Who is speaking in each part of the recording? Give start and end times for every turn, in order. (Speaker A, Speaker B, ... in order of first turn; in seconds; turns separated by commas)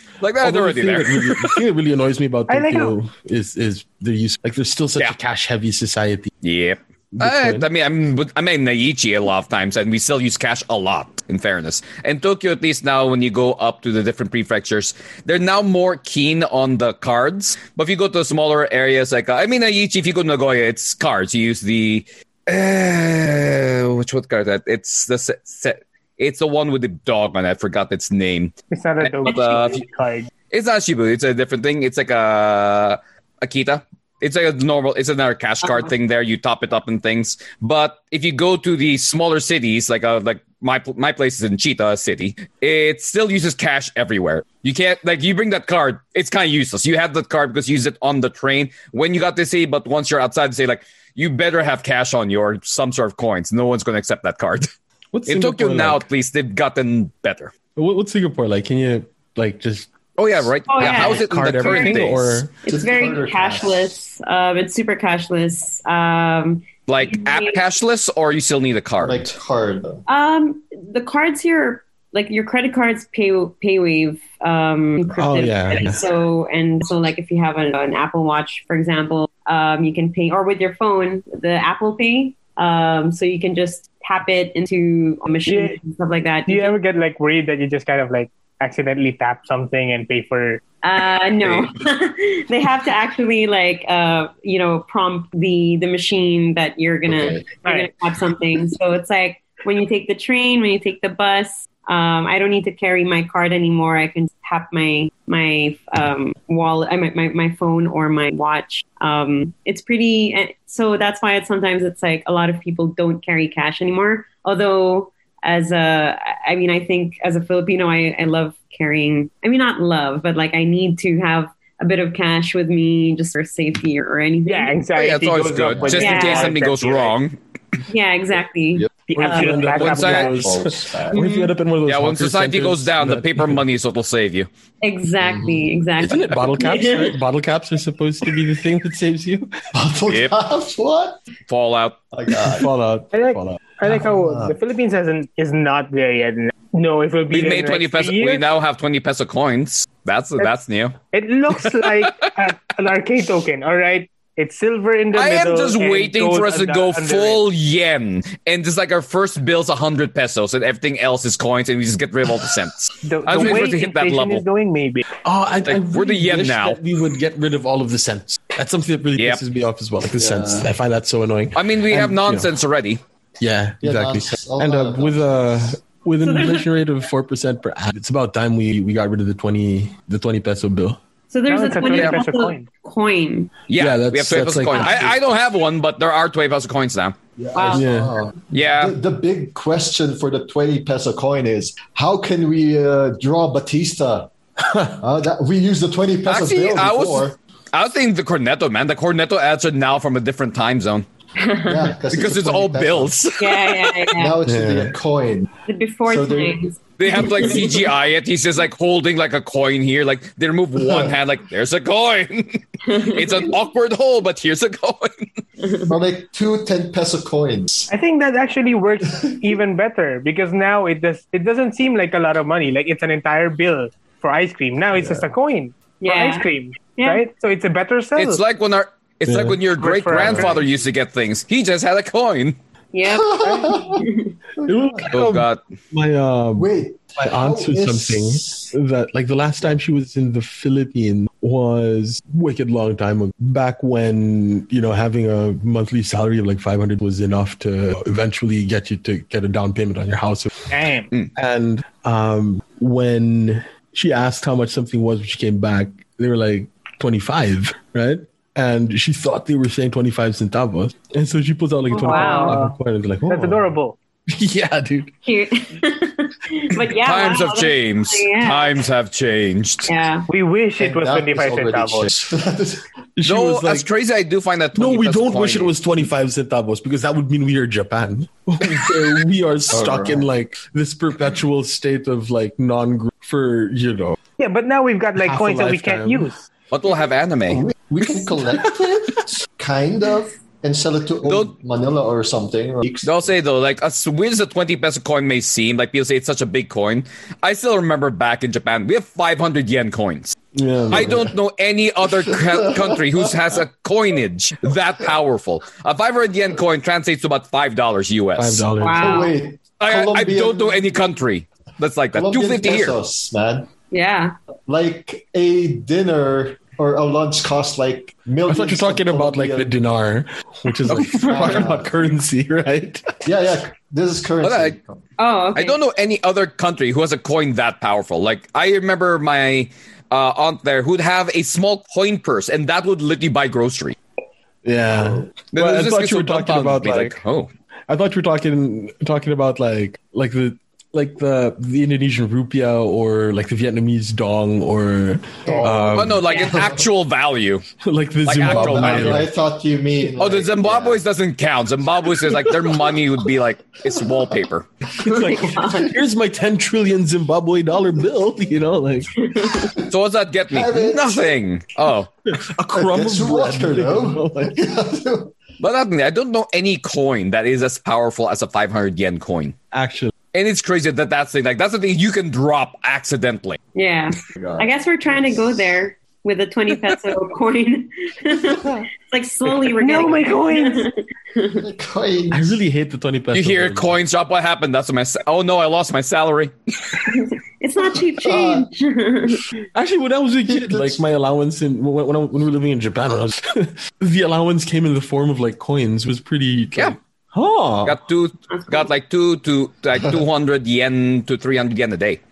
Speaker A: 0.2-1.6, Speaker B: 0.4-6.3, Speaker C: 2.5-3.0, Speaker A: 6.4-29.8, Speaker B: 7.1-7.7, Speaker C: 28.7-30.3, Speaker A: 30.5-54.7, Speaker B: 55.1-56.0, Speaker A: 55.3-57.5, Speaker B: 57.8-59.9, Speaker A: 60.2-62.4, Speaker D: 60.7-62.1, Speaker B: 60.8-62.5, Speaker D: 62.6-67.6, Speaker E: 62.7-63.9, Speaker A: 66.9-69.2, Speaker E: 69.0-70.0, Speaker D: 70.1-86.8, Speaker B: 75.2-76.0, Speaker C: 85.5-85.8, Speaker C: 86.5-90.6, Speaker D: 90.8-124.8, Speaker E: 97.1-97.5, Speaker C: 124.5-127.1, Speaker A: 125.0-127.4, Speaker E: 125.7-126.1, Speaker D: 126.0-126.5, Speaker D: 127.9-129.6, Speaker C: 129.1-130.4, Speaker B: 129.1-133.7, Speaker E: 129.6-131.2, Speaker A: 129.8-130.3, Speaker D: 131.1-131.5, Speaker A: 131.9-134.5, Speaker D: 134.8-137.2, Speaker E: 135.2-135.7, Speaker B: 136.0-139.5, Speaker E: 139.7-141.2, Speaker A: 140.1-140.3, Speaker A: 141.5-142.0, Speaker E: 142.1-142.7, Speaker B: 142.4-143.6, Speaker C: 143.1-148.5, Speaker E: 143.9-144.6, Speaker A: 147.3-151.0, Speaker C: 151.1-157.4, Speaker A: 151.5-152.3, Speaker A: 155.1-164.4, Speaker C: 163.0-165.1, Speaker B: 165.2-172.5, Speaker A: 165.7-166.8, Speaker E: 170.1-170.7, Speaker A: 171.6-173.0, Speaker B: 173.4-181.0, Speaker E: 173.8-175.6, Speaker D: 176.2-176.7, Speaker D: 181.3-183.5, Speaker C: 181.5-182.7, Speaker A: 181.9-182.2, Speaker A: 183.7-187.2, Speaker B: 183.8-185.2, Speaker E: 187.4-194.3, Speaker D: 187.5-187.9, Speaker B: 187.7-188.2, Speaker A: 188.5-189.0, Speaker B: 194.6-195.0, Speaker E: 195.0-197.4, Speaker A: 196.3-201.1, Speaker D: 201.4-201.9, Speaker E: 201.7-203.2, Speaker A: 202.1-204.1, Speaker D: 203.4-204.4, Speaker E: 204.1-205.5, Speaker B: 204.4-204.9, Speaker D: 205.7-207.8, Speaker E: 206.1-206.6, Speaker A: 207.0-215.3, Speaker E: 210.8-211.2, Speaker D: 212.9-213.3, Speaker D: 215.6-215.9, Speaker E: 215.9-217.9, Speaker C: 217.9-228.4, Speaker E: 225.0-225.2, Speaker D: 226.0-227.2, Speaker A: 228.2-232.6, Speaker B: 229.3-229.6, Speaker C: 229.8-230.6, Speaker D: 232.9-234.4, Speaker E: 233.1-234.0, Speaker C: 233.4-233.8, Speaker E: 234.6-235.1, Speaker B: 234.6-250.7, Speaker A: 235.1-235.6, Speaker E: 236.6-238.7, Speaker C: 250.7-251.1, Speaker B: 251.3-263.8, Speaker D: 261.9-262.6, Speaker C: 262.0-262.8, Speaker C: 263.3-264.0, Speaker B: 264.3-265.1, Speaker D: 265.3-268.9, Speaker A: 267.0-269.9, Speaker D: 269.9-270.3, Speaker C: 270.3-272.1, Speaker E: 270.8-272.9, Speaker B: 273.1-273.9, Speaker A: 273.2-275.7, Speaker B: 274.8-284.2, Speaker E: 279.7-280.3, Speaker C: 284.4-286.4, Speaker B: 285.1-286.3, Speaker A: 286.7-287.6, Speaker E: 287.5-293.2, Speaker A: 291.2-291.5, Speaker A: 293.0-300.4, Speaker B: 300.5-301.3, Speaker A: 300.9-308.6, Speaker E: 300.9-301.2, Speaker E: 302.3-303.2, Speaker B: 308.4-309.2, Speaker D: 308.8-309.3, Speaker E: 308.9-310.9, Speaker A: 309.8-313.0, Speaker E: 312.1-313.7, Speaker D: 313.9-314.4, Speaker E: 314.7-319.7, Speaker B: 318.5-323.2, Speaker E: 320.9-321.9, Speaker E: 323.2-325.0, Speaker A: 324.4-324.8, Speaker D: 325.2-325.8, Speaker A: 325.6-334.0, Speaker B: 334.6-337.2, Speaker E: 334.9-335.2, Speaker A: 335.5-337.5, Speaker B: 337.9-346.2, Speaker E: 345.5-346.9, Speaker A: 345.9-347.6, Speaker D: 346.3-346.6, Speaker B: 347.8-349.3, Speaker A: 348.2-349.3, Speaker E: 348.4-351.0, Speaker A: 350.2-354.7, Speaker B: 355.0-359.1, Speaker D: 355.0-356.0, Speaker D: 359.2-359.8, Speaker A: 359.9-362.1, Speaker E: 360.5-361.3, Speaker B: 362.3-364.6, Speaker E: 362.7-365.3, Speaker A: 365.6-369.6, Speaker B: 369.7-370.1, Speaker A: 370.3-373.6, Speaker D: 373.8-381.6, Speaker E: 374.4-374.7, Speaker E: 378.6-378.9, Speaker C: 379.7-380.9, Speaker E: 381.6-382.6, Speaker B: 382.3-383.9, Speaker A: 383.3-386.5, Speaker D: 387.1-389.5, Speaker E: 388.1-388.7, Speaker B: 389.8-398.0, Speaker E: 390.5-391.0, Speaker A: 397.8-402.2, Speaker D: 398.5-398.9